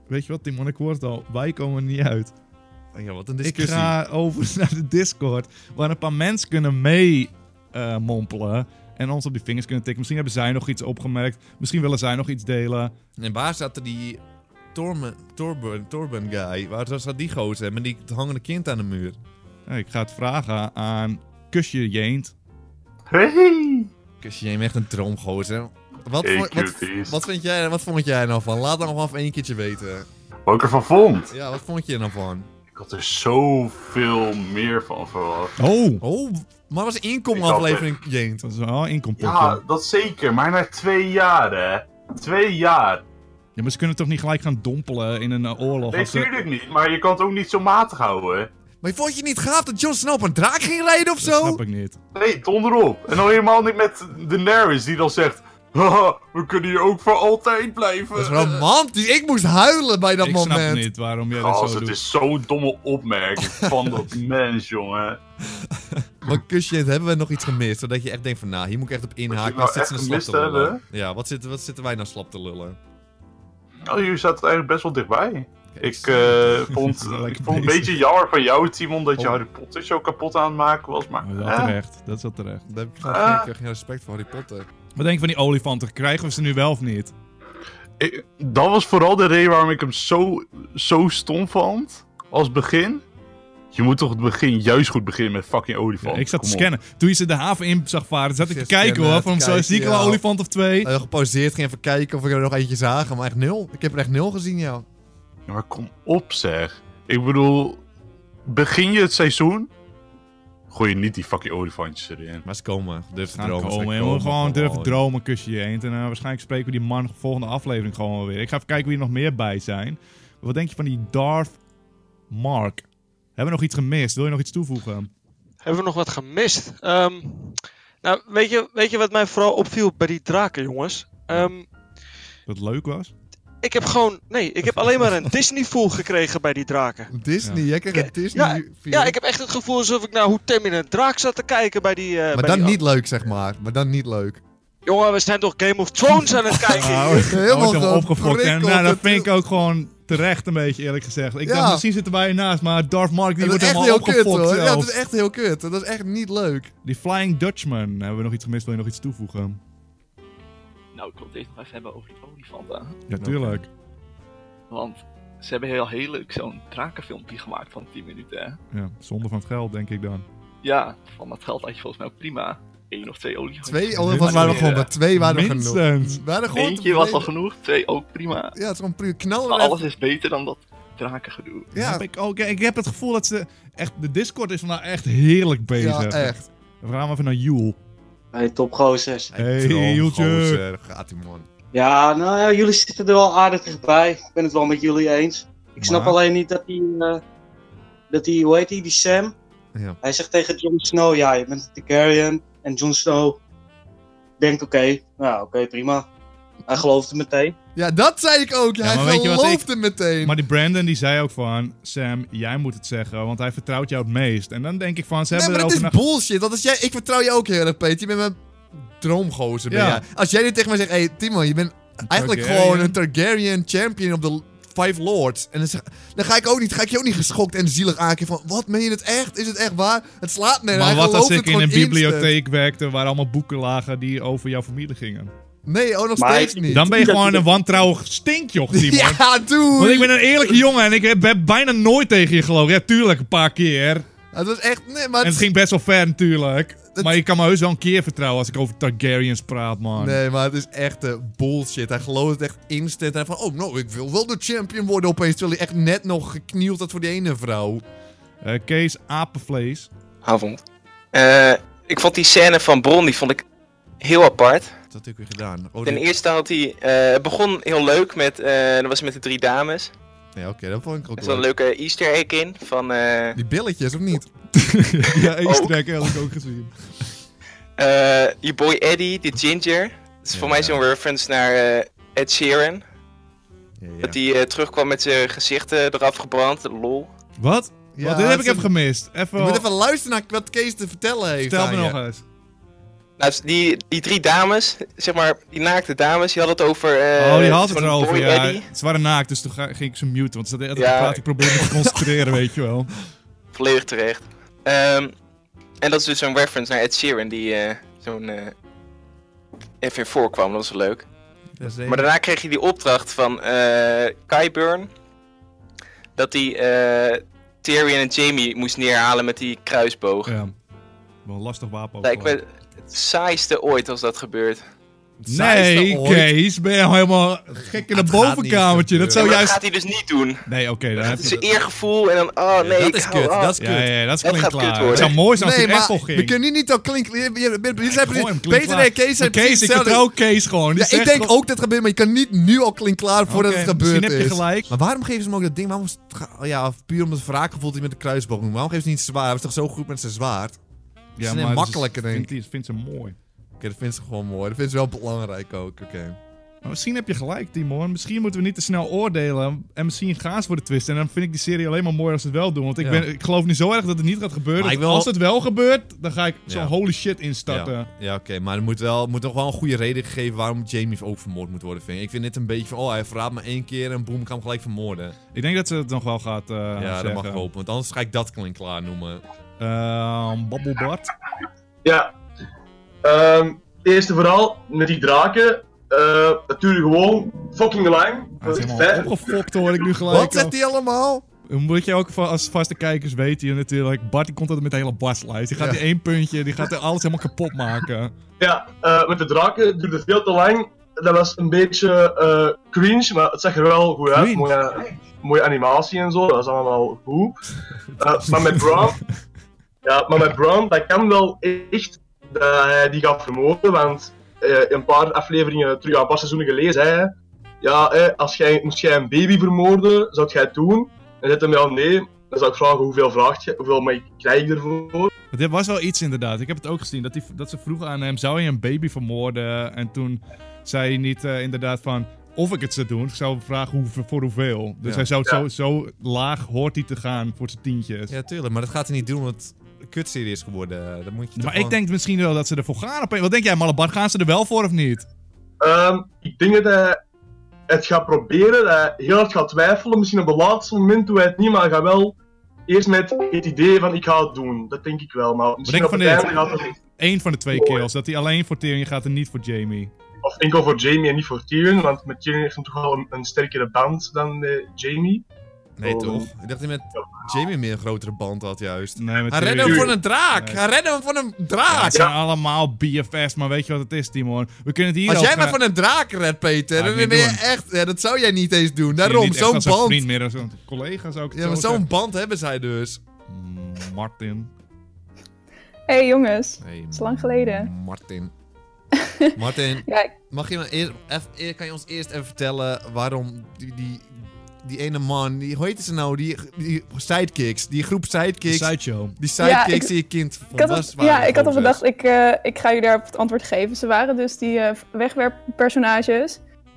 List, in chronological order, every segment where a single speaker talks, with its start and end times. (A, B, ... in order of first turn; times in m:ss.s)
0:00.1-0:02.3 A
0:02.9-0:03.9 B
0:03.4-0:12.9 A
0:13.2-0:14.2 B
0:14.7-0:19.2 B
0:19.7-0:22.3 A
0:23.1-0:23.9 C
0:24.2-0:30.1 B
0:26.2-0:27.2 C
0:30.5-0:31.3 C
0:31.3-0:32.5 B
0:32.7-0:35.6 C
0:35.6-0:36.0 A
0:36.0-0:38.4 B
0:37.3-0:37.9 C
0:38.4-0:39.6 A
0:39.2-0:43.0 C
0:43.6-0:46.3 A
0:45.9-0:48.5 C
0:48.8-0:51.6 B
0:51.2-0:52.0 A
0:52.2-0:58.6 C
0:58.1-1:00.9 B
1:00.2-1:02.0 A
1:01.4-1:05.2 C
1:03.4-1:04.0 B
1:05.5-1:12.8 B
1:09.3-1:10.8 C
1:13.9-1:21.8 C
1:15.7-1:16.6 B
1:16.7-1:18.0 A
1:19.2-1:19.4 B
1:21.2-1:22.6 A
1:22.7-1:24.7 B
1:23.1-1:23.5 C
1:25.0-1:27.1 A
1:28.0-1:33.0 C
1:33.7-1:36.7 C
1:36.0-1:40.9 A
1:38.4-1:40.2 B
1:40.8-1:44.8 B
1:45.5-1:47.8 C
1:48.5-1:49.7 C
1:50.7-1:52.4 C
1:52.4-1:55.0 B
1:53.3-2:01.6 A
2:02.3-2:02.8 A
2:03.4-2:05.1 A
2:05.6-2:11.7 D
2:12.5-2:13.1 A
2:13.6-2:17.1 D
2:17.1-2:19.2 B
2:17.9-2:22.8 D
2:22.3-2:24.4 B
2:24.9-2:27.3 D
2:26.7-2:34.9 A
2:26.8-2:29.3 B
2:31.4-2:31.8 B
2:33.4-2:36.7 B
2:36.8-2:39.6 A
2:40.9-2:43.0 E
2:43.1-2:43.7 A
2:43.2-2:43.6 B
2:44.7-2:48.6 E
2:48.7-2:50.2 A
2:50.6-2:54.9 E
2:53.6-2:57.3 B
2:54.0-2:56.2 A
2:56.5-2:58.6 E
2:58.5-2:59.8 B
2:59.5-3:01.7 E
3:01.7-3:02.0 B
3:01.8-3:07.8 A
3:05.8-3:06.4 B
3:08.3-3:09.3 F
3:09.3-3:11.5 B
3:09.4-3:10.6 A
3:11.7-3:17.2 F
3:15.8-3:16.2 A
3:18.1-3:19.3 F
3:20.0-3:23.4 F
3:24.4-3:26.1 F
3:26.7-3:27.6 F
3:27.8-3:30.4 B
3:28.8-3:29.7 A
3:30.2-3:36.0 A
3:35.3-3:52.4 B
3:39.7-3:40.0 A
3:42.1-3:43.0 A
3:50.7-3:55.3 A
3:55.6-3:57.1 B
3:56.2-3:57.8 F
3:56.7-3:59.2 A
3:58.7-4:00.5 B
3:59.8-4:04.0 A
4:04.3-4:05.5 B
4:05.2-4:10.2 A
4:06.9-4:07.2 B
4:10.0-4:17.8 B
4:18.4-4:19.9 A
4:20.2-4:20.6 G
4:21.1-4:23.4 G
4:24.0-4:24.7 G
4:24.9-4:26.0 B
4:25.8-4:29.9 G
4:30.4-4:31.5 B
4:31.2-4:33.4 G
4:33.4-4:34.3 B
4:34.7-4:36.8 A
4:35.0-4:35.3 B
4:35.4-4:35.7 G
4:37.8-4:42.8 G
4:40.3-4:40.8 B
4:43.8-4:44.2 B
4:44.0-4:47.1 G
4:47.4-4:49.6 A
4:48.0-4:48.7 B
4:49.4-4:52.0 B
4:51.4-4:52.2 A
4:53.2-4:58.6 G
4:57.2-5:02.9 A
5:00.8-5:01.2 G
5:03.5-5:05.1 G
5:05.8-5:08.5 G
5:09.8-5:11.0 G
5:11.6-5:12.1 B
5:11.9-5:14.9 G
5:16.2-5:20.3 G
5:20.3-5:20.5 A
5:21.2-5:22.4 A
5:22.0-5:24.6 G
5:25.2-5:26.3 B
5:25.3-5:29.6 A
5:27.6-5:29.4 B
5:29.1-5:30.4 G
5:30.5-5:31.3 A
5:31.0-5:31.5 B
5:31.0-5:33.5 G
5:32.6-5:33.9 B
5:33.6-5:36.4 A
5:34.2-5:35.2 G
5:34.9-5:40.1 B
5:37.8-5:41.3 A
5:40.8-5:50.6 B
5:43.3-5:44.7 A
5:51.2-5:53.2 A
5:51.2-5:52.3 B
5:53.6-5:56.2 B
5:56.6-6:07.9 A
6:02.8-6:03.1 B
6:04.6-6:05.1 B
6:06.5-6:06.8 B
6:07.5-6:15.2 B
6:15.3-6:17.5 A
6:16.8-6:19.2 B
6:19.6-6:21.1 A
6:21.8-6:22.1 H
6:23.0-6:29.4 H
6:28.4-6:30.6 A
6:30.1-6:31.2 B
6:31.5-6:38.1 A
6:35.6-6:35.8 B
6:38.4-6:47.4 H
6:44.1-6:44.5 A
6:48.0-6:49.0 H
6:49.8-7:05.1 H
7:05.3-7:18.1 A
7:14.8-7:15.1 B
7:18.1-7:21.8 B
7:21.4-7:25.0 A
7:25.6-7:27.0 H
7:27.7-7:32.2 H
7:32.7-7:36.8 H
7:35.7-7:36.3 A
7:37.0-7:39.9 A
7:37.5-7:37.9 H
7:40.2-7:45.2 H
7:45.8-7:52.1 B
7:45.8-7:46.3 H
7:49.0-7:50.6 A
7:49.6-7:50.0 H
7:51.7-7:55.6 A
7:55.1-8:00.1 B
7:56.8-7:57.4 A
7:59.0-8:01.9 A
8:01.3-8:03.0 B
8:03.3-8:04.5 A
8:05.9-8:07.7 I
8:06.6-8:08.3 B
8:09.0-8:10.1 I
8:09.4-8:14.1 B
8:14.6-8:21.8 B
8:18.5-8:19.2 A
8:19.4-8:19.9 I
8:20.5-8:26.4 I